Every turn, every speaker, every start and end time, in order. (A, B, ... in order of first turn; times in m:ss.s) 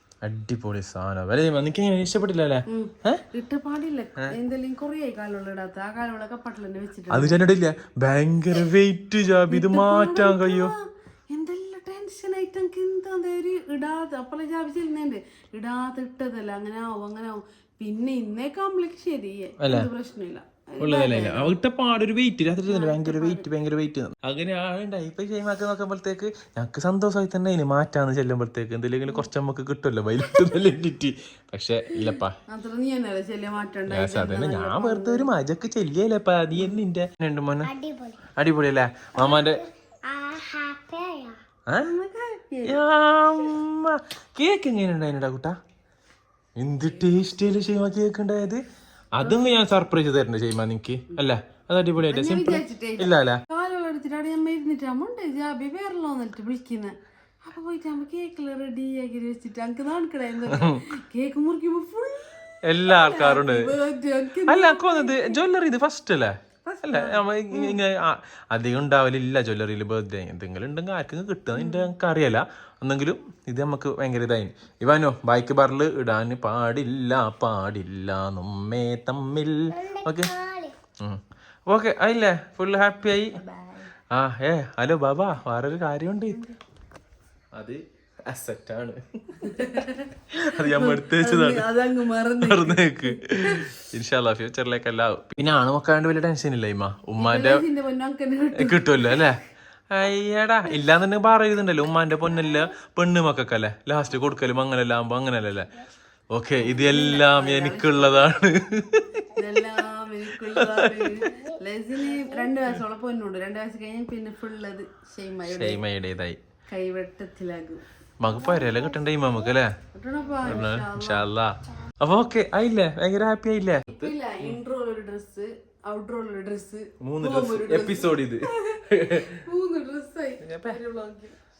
0:00.2-0:03.2 A
0:02.7-0:07.5 B
0:07.1-0:10.7 A
0:09.5-0:21.6 B
0:19.6-0:19.9 A
0:20.8-0:32.4 A
0:22.7-0:23.5 B
0:32.5-0:35.3 B
0:33.9-0:37.7 A
0:37.6-0:38.2 C
0:38.3-0:39.6 A
0:39.2-0:41.4 C
0:41.7-0:41.9 A
0:41.8-0:42.8 B
0:42.6-0:45.6 A
0:46.6-0:48.6 A
0:49.2-0:53.4 A
0:49.2-0:49.6 B
0:52.1-1:02.3 B
1:00.5-1:00.8 A
1:02.6-1:03.7 A
1:02.8-1:05.4 B
1:04.5-1:20.3 A
1:06.6-1:07.8 B
1:11.6-1:11.9 B
1:19.7-1:20.8 C
1:21.0-1:23.4 A
1:23.4-1:23.9 B
1:24.1-1:26.5 A
1:27.6-1:31.7 A
1:29.4-1:33.8 B
1:32.4-1:37.6 A
1:37.2-1:39.3 B
1:38.6-1:39.4 A
1:39.9-1:49.5 A
1:46.6-1:48.4 B
1:49.3-1:55.8 B
1:50.3-1:51.3 A
1:55.4-1:56.4 A
1:56.7-1:57.8 B
1:58.2-1:59.7 A
1:58.3-1:59.4 C
1:59.9-2:01.3 B
2:00.4-2:04.6 A
2:03.9-2:11.4 B
2:07.0-2:09.4 A
2:10.4-2:10.8 A